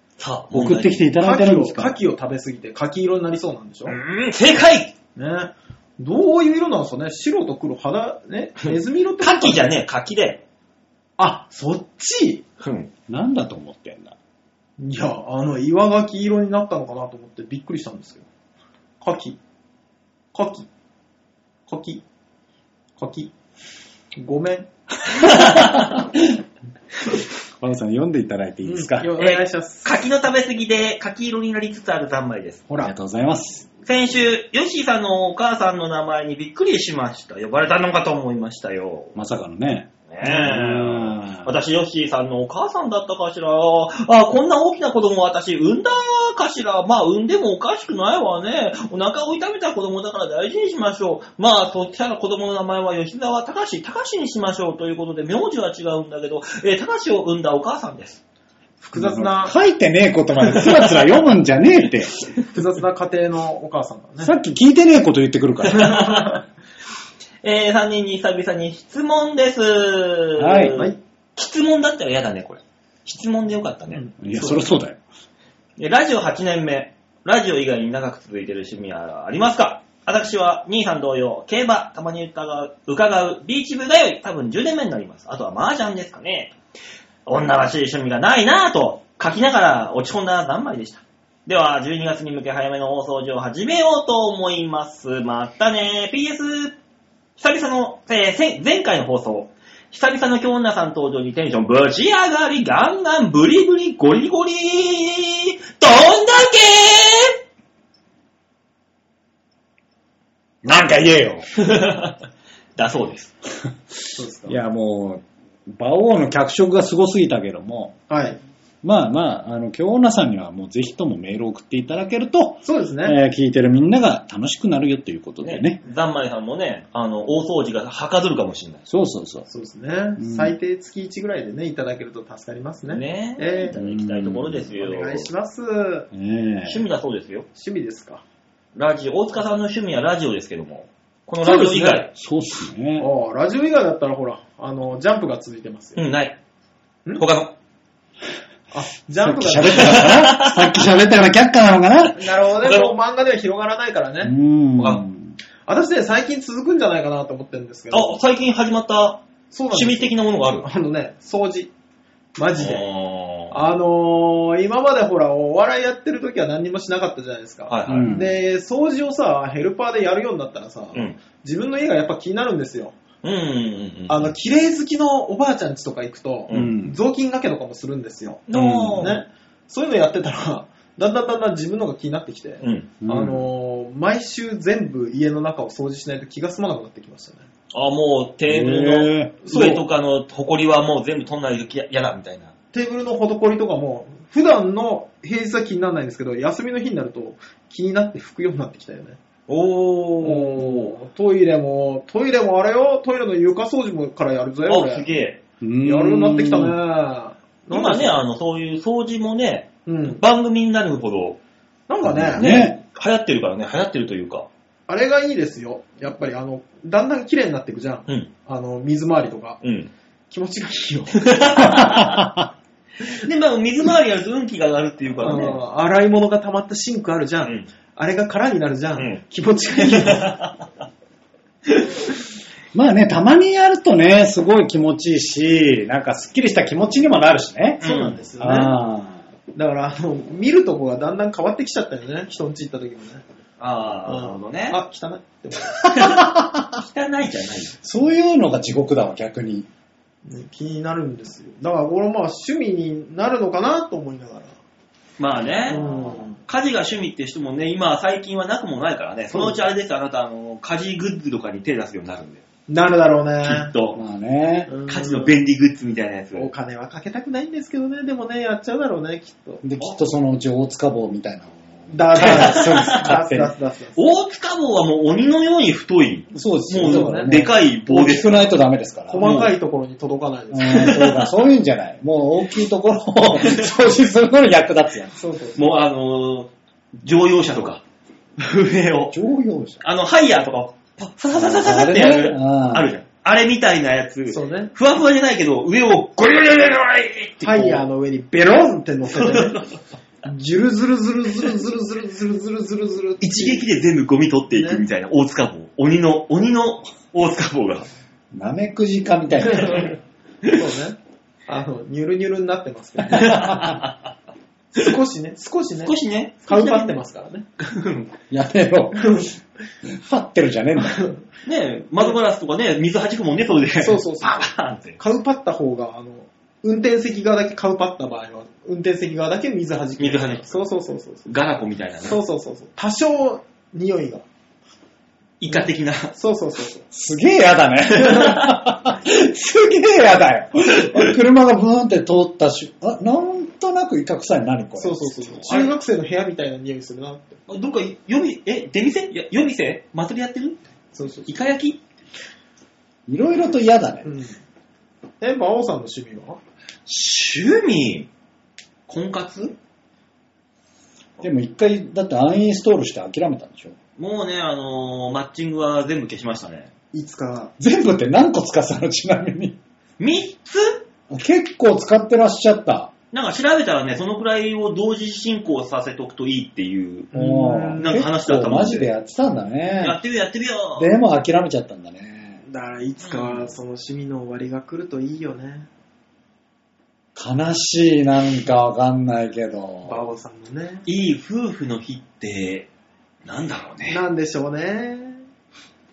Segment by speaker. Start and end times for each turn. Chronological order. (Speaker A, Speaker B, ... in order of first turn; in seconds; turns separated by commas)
Speaker A: 0.2-1.0, Speaker B: 0.5-1.9, Speaker C: 1.2-4.0, Speaker A: 3.9-4.9, Speaker C: 5.2-9.7, Speaker A: 9.2-10.4, Speaker C: 11.2-12.4, Speaker A: 12.6-12.9, Speaker B: 13.1-14.2, Speaker C: 14.8-18.2, Speaker C: 19.0-19.4, Speaker C: 20.3-20.7, Speaker C: 21.7-22.0, Speaker C: 23.0-23.3, Speaker C: 24.2-24.7, Speaker A: 25.2-26.0, Speaker B: 25.6-26.2, Speaker B: 27.6-29.1, Speaker C: 28.6-30.0, Speaker A: 29.2-32.6, Speaker B: 32.8-33.7, Speaker A: 33.9-39.1, Speaker B: 39.1-41.5, Speaker A: 40.1-58.2, Speaker C: 58.8-59.5, Speaker B: 58.9-62.2, Speaker A: 60.5-61.1, Speaker C: 62.5-64.3, Speaker B: 64.2-66.0, Speaker A: 65.6-66.4, Speaker C: 65.8-66.4, Speaker A: 67.4-74.0, Speaker B: 70.4-70.8, Speaker C: 73.9-74.7, Speaker B: 74.2-75.0, Speaker A: 75.8-86.5, Speaker A: 87.2-96.8, Speaker A: 97.4-107.3, Speaker B: 110.6-111.5, Speaker A: 111.5-112.2, Speaker A: 112.8-113.3, Speaker C: 114.1-114.6, Speaker B: 114.5-118.0, Speaker C: 118.1-118.4, Speaker B: 118.8-125.8, Speaker C: 122.6-123.2, Speaker A: 125.4-128.9, Speaker B: 128.9-129.5, Speaker C: 129.5-133.7, Speaker B: 130.2-130.5, Speaker A: 132.9-135.3, Speaker B: 133.7-134.6, Speaker C: 134.7-136.1, Speaker B: 136.1-136.8, Speaker A: 136.7-137.5, Speaker C: 137.5-138.2, Speaker A: 138.7-142.1, Speaker C: 141.4-142.1, Speaker B: 142.1-143.1, Speaker C: 143.0-146.0, Speaker A: 145.9-146.4, Speaker A: 147.2-147.5, Speaker C: 148.7-150.2, Speaker B: 149.2-152.2, Speaker A: 149.7-150.8, Speaker C: 152.1-154.3, Speaker A: 152.5-152.9, Speaker B: 154.2-155.4, Speaker C: 155.7-158.2, Speaker A: 157.9-160.7, Speaker C: 159.5-161.7, Speaker C: 162.4-162.8, Speaker A: 162.6-163.6, Speaker C: 163.5-173.0, Speaker A: 167.7-168.2, Speaker B: 167.9-168.3, Speaker A: 173.2-174.3, Speaker C: 174.1-187.4, Speaker B: 176.5-177.0, Speaker A: 178.5-179.2, Speaker B: 178.5-179.2, Speaker A: 182.6-182.9, Speaker B: 183.0-183.4, Speaker A: 187.7-192.5, Speaker B: 188.5-189.3, Speaker C: 189.4-189.8, Speaker C: 192.7-199.2, Speaker A: 199.5-200.9, Speaker C: 200.2-205.1, Speaker A: 204.7-205.4, Speaker B: 205.6-206.8, Speaker C: 205.8-208.2, Speaker A: 207.7-211.4, Speaker C: 209.8-210.2, Speaker C: 211.9-212.5, Speaker B: 212.0-212.8, Speaker A: 212.3-214.5, Speaker C: 214.9-219.6, Speaker A: 219.6-219.9, Speaker C: 220.3-222.0, Speaker A: 221.1-222.2, Speaker B: 222.0-222.5, Speaker A: 223.2-225.6, Speaker C: 225.2-230.3, Speaker A: 229.7-230.6, Speaker B: 232.7-237.8, Speaker C: 237.8-238.8, Speaker A: 237.8-238.3, Speaker B: 238.4-239.2, Speaker C: 239.5-243.2, Speaker A: 243.6-244.8, Speaker C: 244.1-245.9, Speaker B: 245.9-246.8, Speaker A: 245.9-247.8, Speaker B: 247.8-249.7, Speaker C: 250.2-254.5, Speaker A: 255.2-262.4, Speaker C: 255.7-256.4, Speaker C: 259.3-259.6, Speaker C: 262.7-263.7, Speaker A: 263.4-264.0, Speaker B: 263.9-264.7, Speaker C: 264.7-265.4, Speaker A: 264.9-266.5, Speaker C: 266.3-269.6, Speaker B: 269.6-273.5, Speaker C: 271.9-274.0, Speaker A: 272.1-273.2, Speaker A: 273.9-278.5, Speaker B: 276.3-279.2, Speaker C: 276.8-277.3, Speaker C: 279.1-281.1, Speaker A: 279.1-279.5, Speaker B: 280.5-285.2, Speaker A: 280.6-281.3, Speaker A: 283.4-283.7, Speaker C: 285.1-285.6, Speaker A: 285.6-287.8, Speaker A: 288.4-289.1, Speaker B: 289.1-289.8, Speaker A: 289.8-297.8, Speaker B: 291.3-292.9, Speaker C: 294.3-294.7, Speaker C: 297.4-299.6, Speaker A: 299.1-299.7, Speaker C: 300.2-303.6, Speaker A: 303.2-307.9, Speaker C: 304.5-304.8, Speaker B: 308.3-309.9, Speaker C: 309.5-309.9, Speaker C: 310.4-313.7, Speaker A: 313.1-313.9, Speaker B: 313.3-313.7, Speaker C: 314.7-315.9, Speaker A: 315.8-317.0, Speaker C: 316.4-317.4, Speaker A: 317.6-318.1, Speaker B: 318.3-321.1, Speaker C: 319.0-319.3, Speaker C: 320.8-321.2, Speaker A: 321.4-325.0, Speaker C: 323.8-331.3, Speaker A: 330.0-330.6, Speaker A: 331.2-332.2, Speaker C: 332.0-334.2, Speaker A: 335.4-336.1, Speaker C: 335.5-336.9, Speaker B: 336.9-345.3, Speaker A: 338.0-338.4, Speaker C: 344.8-347.4, Speaker A: 345.5-345.7, Speaker A: 347.5-350.7, Speaker C: 350.9-351.3, Speaker A: 351.3-351.8, Speaker B: 353.1-354.1, Speaker C: 354.0-354.4, Speaker C: 355.2-356.4, Speaker A: 356.9-358.1, Speaker A: 358.9-359.5, Speaker B: 361.2-363.8, Speaker A: 364.0-366.7, Speaker C: 366.9-367.5, Speaker B: 367.6-369.6, Speaker A: 370.0-370.8, Speaker B: 371.1-372.9, Speaker A: 373.1-377.1, Speaker C: 377.1-378.0, Speaker B: 377.1-380.0, Speaker A: 377.8-378.9, Speaker A: 379.8-380.9, Speaker B: 380.8-382.4, Speaker C: 382.4-385.7, Speaker A: 383.0-383.5, Speaker B: 387.1-390.0, Speaker C: 389.8-390.9, Speaker A: 390.9-392.7, Speaker A: 393.2-394.0, Speaker C: 393.9-395.2